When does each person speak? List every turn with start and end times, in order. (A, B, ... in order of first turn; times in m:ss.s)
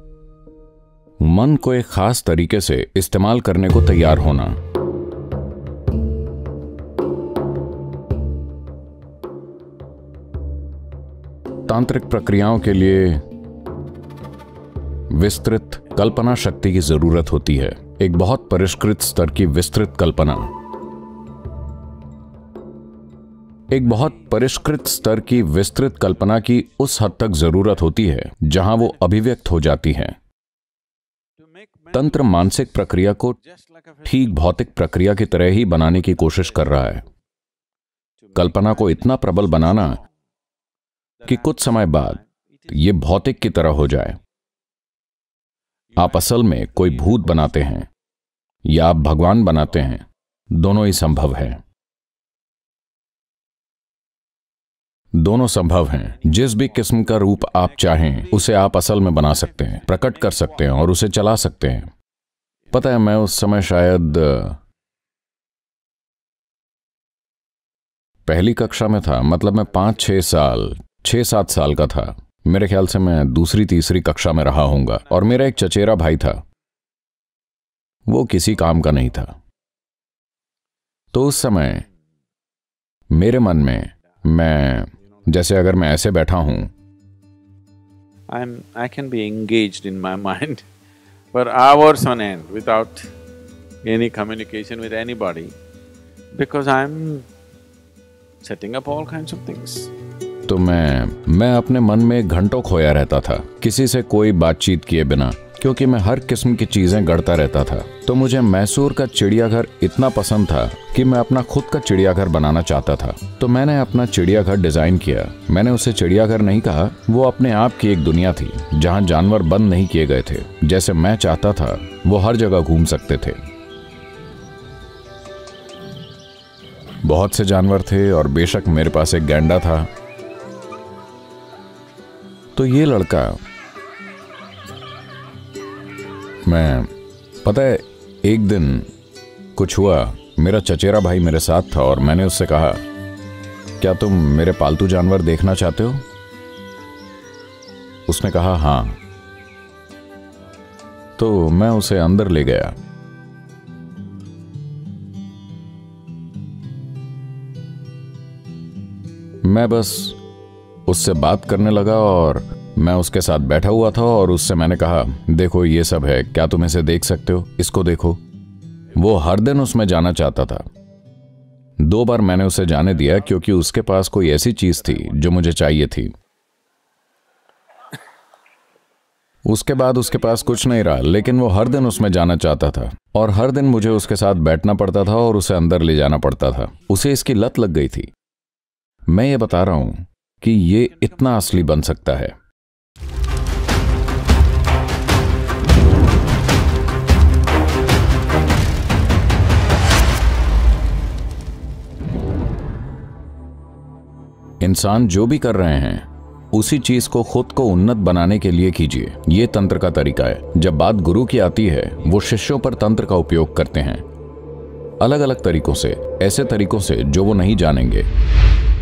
0:01.2-0:04.6 A
0:11.7-0:13.2 A
0:15.1-0:20.5 A
0:23.7-0:30.2 A
0:31.6-0:31.9 B
0:31.9-0:33.4 A
0:33.6-0:34.1 B
0:34.0-0:37.0 A
0:38.3-0:38.7 B
0:38.4-0:40.0 A
0:41.3-0:44.2 A
0:46.0-0:47.9 A
0:48.6-0:51.6 A
0:55.2-1:01.9 A
1:02.7-1:04.6 A
1:08.3-1:16.4 A
1:18.1-1:19.4 A
1:21.1-1:21.9 A
1:23.1-1:26.7 A
1:28.3-1:30.7 B
1:31.3-1:33.1 B
1:33.8-1:35.6 B
1:36.3-1:37.3 B
1:38.4-1:39.9 B
1:40.5-2:03.4 A
2:07.0-2:09.9 A
2:12.6-2:13.4 A
2:16.5-2:16.9 A
2:17.4-2:18.9 A
2:19.6-2:22.8 A
2:23.8-2:26.0 A
2:28.1-2:29.0 A
2:31.2-2:32.8 A
2:39.4-2:40.2 A
2:40.9-2:48.2 A
2:49.0-2:50.7 A
2:51.8-2:56.1 A
2:59.5-3:08.1 A
3:09.1-3:12.4 A
3:24.6-3:34.0 A
3:35.0-3:38.1 A